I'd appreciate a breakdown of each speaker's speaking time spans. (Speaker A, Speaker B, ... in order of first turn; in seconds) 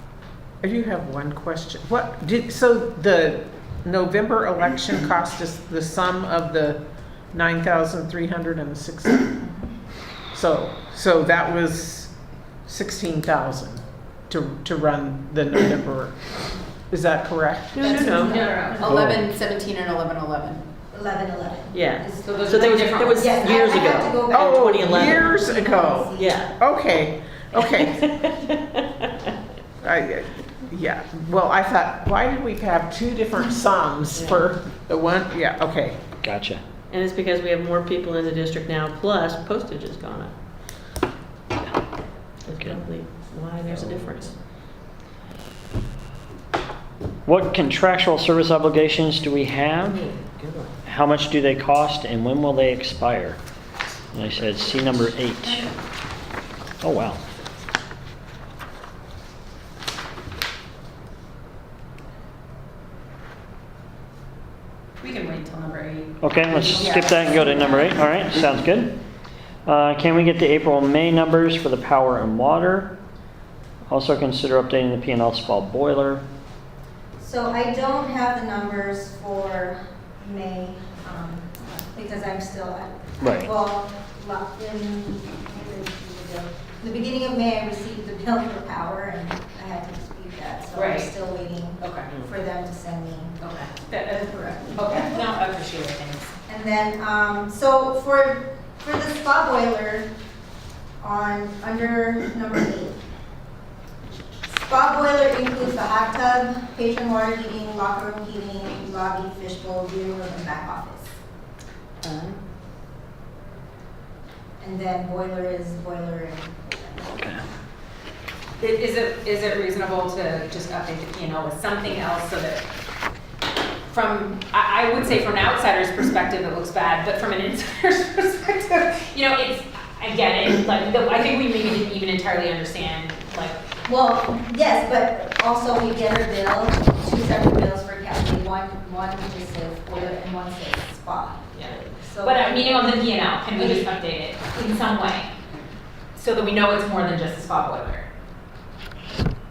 Speaker A: 0.6-6.8, 7.3-9.4, 10.3-12.1, 12.6-16.2, 16.9-17.9, 24.3-28.0, 29.8-36.0
Speaker B: 17.7-18.5, 21.7-25.3, 26.1-26.5, 27.6-29.0, 34.1-34.4, 36.9-40.3, 42.5-44.3, 49.8-50.8, 112.0-112.3
Speaker C: 17.8-19.0, 20.9-26.4, 66.8-67.9, 77.2-93.4, 94.7-95.2, 96.5-100.1, 101.0-103.0, 104.5-111.1, 114.6-117.2, 133.8-143.8
Speaker D: 17.8-20.6, 22.2-23.3, 65.0-67.0, 90.7-91.1, 91.8-92.1, 93.4-96.3, 118.6-122.6, 123.9-133.6, 141.6-145.3, 146.1-148.1
Speaker E: 36.2-36.6, 43.7-44.1, 47.2-50.0, 50.9-53.4, 54.1-55.7, 56.8-57.2, 66.2-69.0, 69.7-72.9, 73.9-76.2, 83.2-83.5, 117.1-117.4